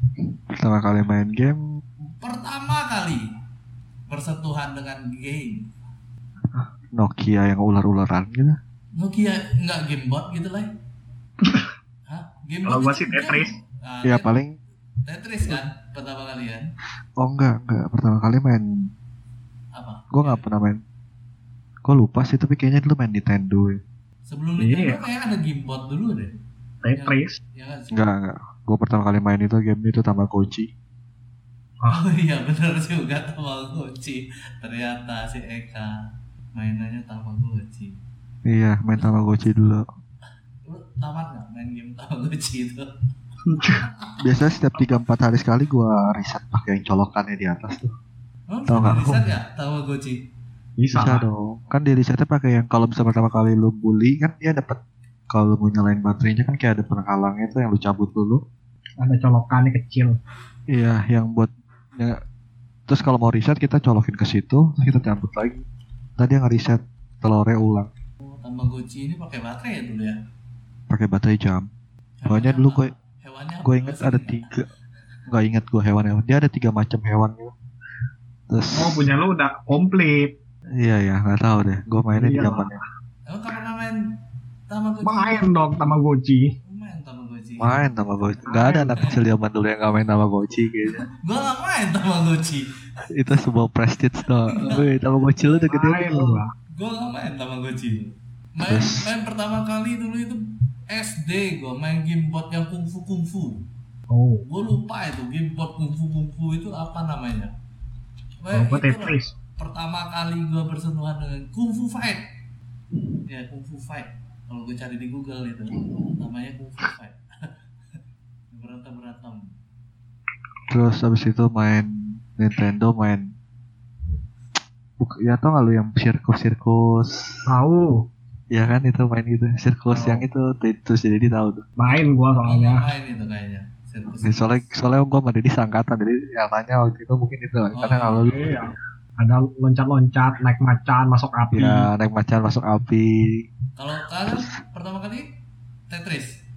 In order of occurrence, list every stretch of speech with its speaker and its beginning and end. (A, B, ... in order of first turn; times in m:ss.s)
0:00.2-0:01.6 A
0:02.2-0:03.2 B
0:04.1-0:05.7 B
0:06.5-0:08.6 A
0:09.0-0:10.7 B
0:11.4-0:11.7 C
0:12.1-0:14.3 B
0:12.7-0:13.5 C
0:14.0-0:14.5 A
0:15.1-0:16.6 B
0:17.2-0:18.9 A
0:19.8-0:20.5 B
0:20.1-0:20.8 A
0:21.8-0:23.8 A
0:24.3-0:26.3 B
0:24.6-0:25.0 C
0:26.8-0:27.4 C
0:27.0-0:28.0 B
0:27.9-0:30.7 A
0:31.9-0:35.9 B
0:36.5-0:38.0 B
0:38.5-0:39.8 A
0:38.9-0:39.3 B
0:40.7-0:42.9 B
0:43.5-0:43.8 C
0:43.8-0:44.2 B
0:44.2-0:47.9 A
0:48.5-0:50.2 B
0:48.7-0:49.3 A
0:50.8-0:51.3 C
0:50.9-0:54.8 A
0:55.3-0:58.4 A
0:59.0-1:00.2 C
1:00.7-1:02.2 A
1:02.9-1:05.6 A
1:06.2-1:07.9 A
1:08.2-1:10.2 B
1:10.9-1:11.7 A
1:12.2-1:14.5 B
1:12.3-1:12.9 A
1:13.6-1:14.7 A
1:15.3-1:17.5 A
1:18.5-1:19.0 A
1:18.8-1:20.3 C
1:20.8-1:22.7 A
1:22.2-1:22.8 C
1:23.3-1:24.0 B
1:24.7-1:25.5 B
1:25.0-1:26.5 C
1:26.6-1:27.9 B
1:27.6-1:31.1 A
1:28.5-1:29.1 C
1:31.2-1:32.6 B
1:33.1-1:36.4 A
1:34.5-1:34.9 B
1:35.7-1:36.5 C
1:36.8-1:40.4 B
1:38.6-1:39.1 A
1:40.9-1:43.6 B
1:44.1-1:44.4 C
1:44.4-1:47.5 B
1:48.4-1:52.2 B
1:48.5-1:49.3 C
1:53.3-1:57.6 B
1:58.5-1:59.5 B
2:00.7-2:03.3 A
2:05.0-2:07.4 A
2:07.5-2:07.9 C
2:08.5-2:11.7 A
2:09.9-2:10.2 B
2:11.8-2:12.8 C
2:12.4-2:14.6 B
2:14.2-2:18.7 A
2:17.8-2:18.6 B
2:18.3-2:21.8 C
2:21.5-2:23.4 A
2:23.8-2:25.3 B
2:25.9-2:26.3 B